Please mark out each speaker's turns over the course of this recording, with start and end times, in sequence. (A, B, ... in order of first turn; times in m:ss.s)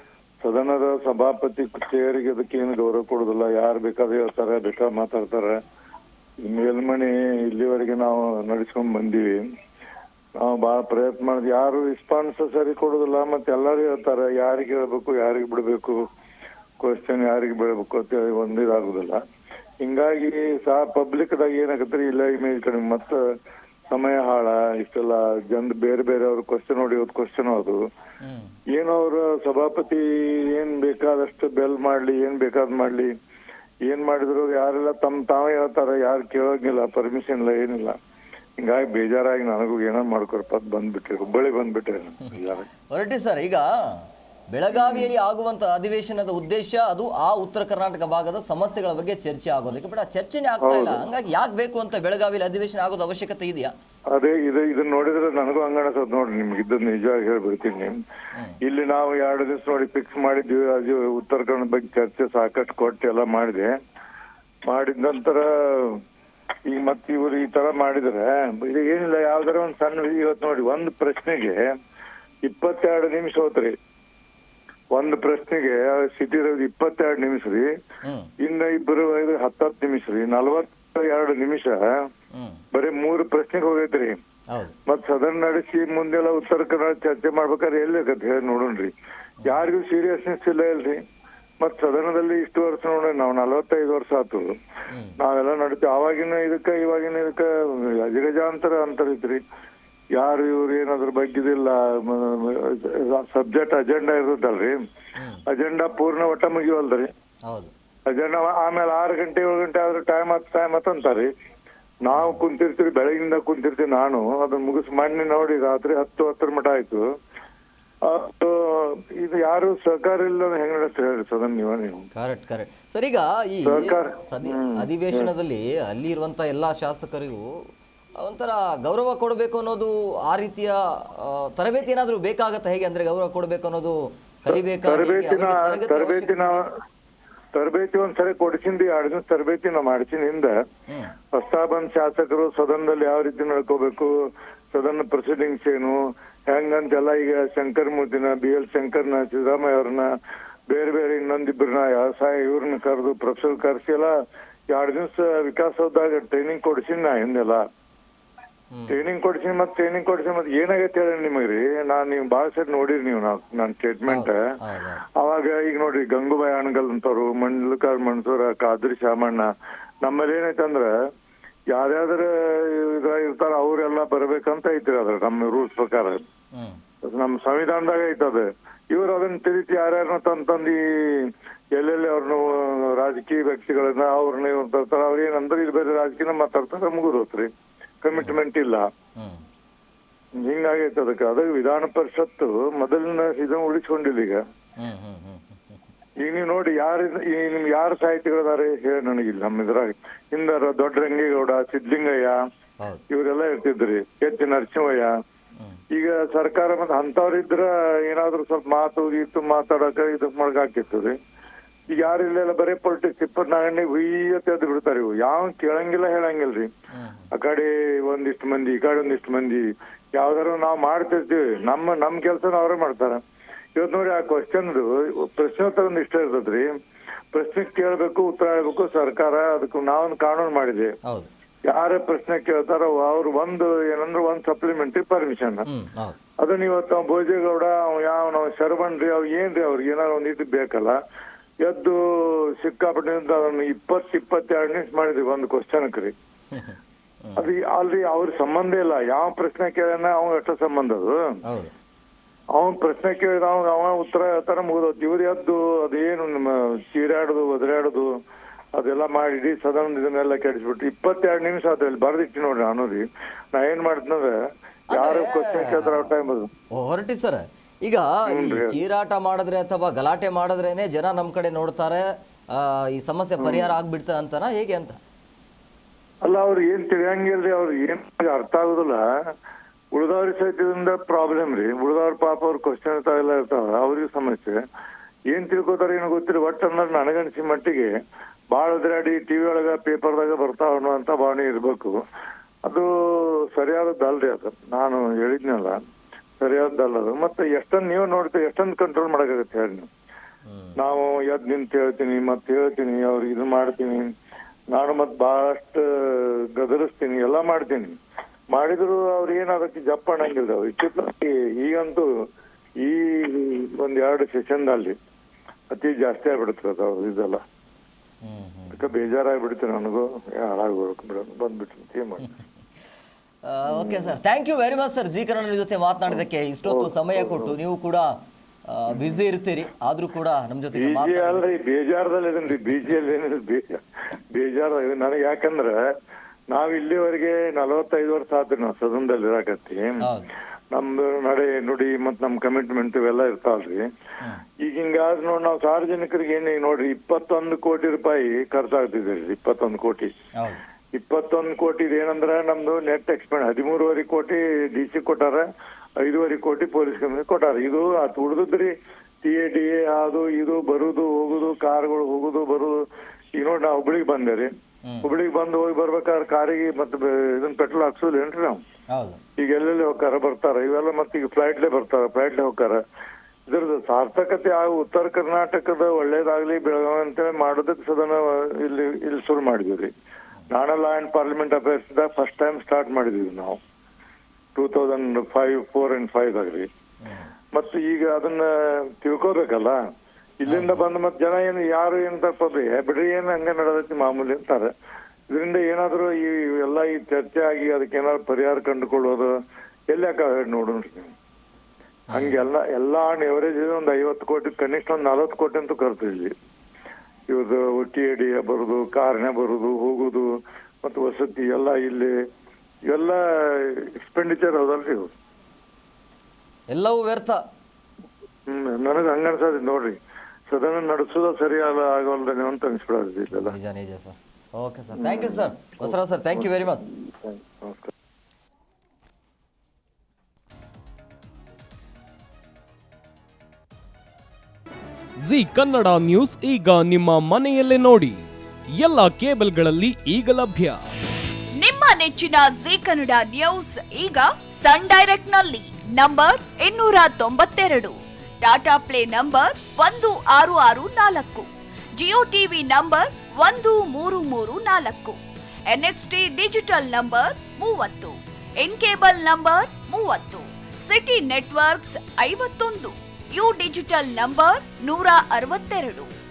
0:00.4-0:05.6 A
0:06.4-0:09.4 A
0:10.4-0:16.0 A
0:16.8-0:19.2 A
0:19.8-0:23.2 A
0:23.9-0:27.8 A
0:28.2-0:28.5 B
0:28.7-0:33.1 A
0:33.9-0:37.9 A
0:38.6-0:42.7 A
0:42.9-0:53.7 B
0:44.7-0:45.1 A
0:50.6-0:51.0 A
0:54.1-0:57.9 A
0:58.6-1:03.7 A
1:04.7-1:06.0 A
1:06.7-1:11.6 A
1:12.4-1:13.7 A
1:14.9-1:17.6 A
1:18.0-1:18.3 B
1:18.4-1:21.8 A
1:22.3-1:22.6 B
1:22.7-1:24.2 A
1:24.9-1:28.9 A
1:29.4-1:31.0 A
1:31.6-1:34.5 A
1:34.9-1:35.2 B
1:35.2-1:39.4 A
1:40.2-1:44.8 A
1:45.2-1:45.4 B
1:45.5-1:47.1 A
1:48.1-1:51.3 A
1:52.0-1:57.0 A
1:52.1-1:52.4 B
1:58.0-2:02.1 A
2:02.1-2:07.4 B
2:03.6-2:05.3 A
2:08.2-2:16.6 B
2:14.5-2:16.6 A
2:17.5-2:20.5 A
2:20.9-2:21.1 B
2:21.3-2:24.1 A
2:24.7-2:26.0 A
2:26.5-2:30.1 A
2:30.7-2:34.1 A
2:34.7-2:37.6 A
2:38.7-2:39.0 B
2:38.9-2:44.4 A
2:44.1-2:45.0 B
2:45.2-2:49.4 A
2:50.0-2:50.9 A
2:51.7-2:56.2 A
2:56.5-2:56.8 B
2:57.0-3:07.5 A
3:08.0-3:08.8 A
3:08.1-3:08.4 B
3:09.2-3:09.4 B
3:10.4-3:14.4 A
3:14.8-3:15.6 B
3:16.2-3:22.4 A
3:23.1-3:25.1 A
3:25.9-3:31.1 A
3:31.9-3:36.7 A
3:36.9-3:37.3 B
3:37.3-3:39.6 A
3:40.1-3:43.2 A
3:43.8-3:46.6 A
3:47.3-3:50.9 A
3:51.7-3:55.7 A
3:55.7-3:56.2 B
3:56.4-4:00.9 A
4:01.6-4:06.1 A
4:06.5-4:07.4 B
4:07.4-4:11.2 A
4:11.4-4:11.7 B
4:12.6-4:18.1 A
4:18.8-4:24.3 A
4:24.9-4:26.1 B
4:24.9-4:26.5 A
4:26.7-4:35.0 B
4:28.3-4:28.8 A
4:33.4-4:33.7 A
4:36.2-4:39.0 A
4:39.9-4:44.6 A
4:45.3-4:47.9 A
4:48.5-4:52.0 A
4:53.5-4:55.8 A
4:56.4-4:59.9 A
5:00.4-5:00.8 B
5:00.8-5:04.1 A
5:04.7-5:08.0 A
5:08.5-5:12.1 A
5:12.8-5:14.9 A
5:15.7-5:17.4 A
5:18.2-5:18.8 B
5:18.7-5:22.3 A
5:23.4-5:28.1 B
5:23.7-5:24.1 A
5:26.1-5:27.6 A
5:28.7-5:31.4 B
5:30.7-5:33.8 A
5:34.3-5:35.8 A
5:36.5-5:40.0 A
5:40.0-5:40.3 B
5:40.7-5:43.8 A
5:44.6-5:50.1 A
5:50.9-5:55.5 A
5:56.0-5:58.7 A
5:59.2-6:02.7 A
6:03.4-6:04.5 A
6:05.0-6:08.6 A
6:08.9-6:09.2 B
6:09.4-6:12.8 A
6:13.5-6:19.9 A
6:20.5-6:23.6 A
6:24.5-6:26.7 A
6:27.0-6:27.3 B
6:27.5-6:29.8 A
6:30.4-6:34.7 A
6:30.5-6:30.8 B
6:35.3-6:39.3 A
6:39.9-6:41.1 A
6:42.1-6:42.4 B
6:42.1-6:46.3 A
6:47.3-6:50.3 A
6:50.8-6:52.1 A
6:52.9-6:55.1 A
6:56.7-6:57.4 B
6:58.5-7:00.0 A
7:00.5-7:03.5 A
7:03.3-7:06.8 B
7:04.9-7:07.9 A
7:15.2-7:18.2 C
7:18.8-7:20.8 C
7:21.6-7:46.1 D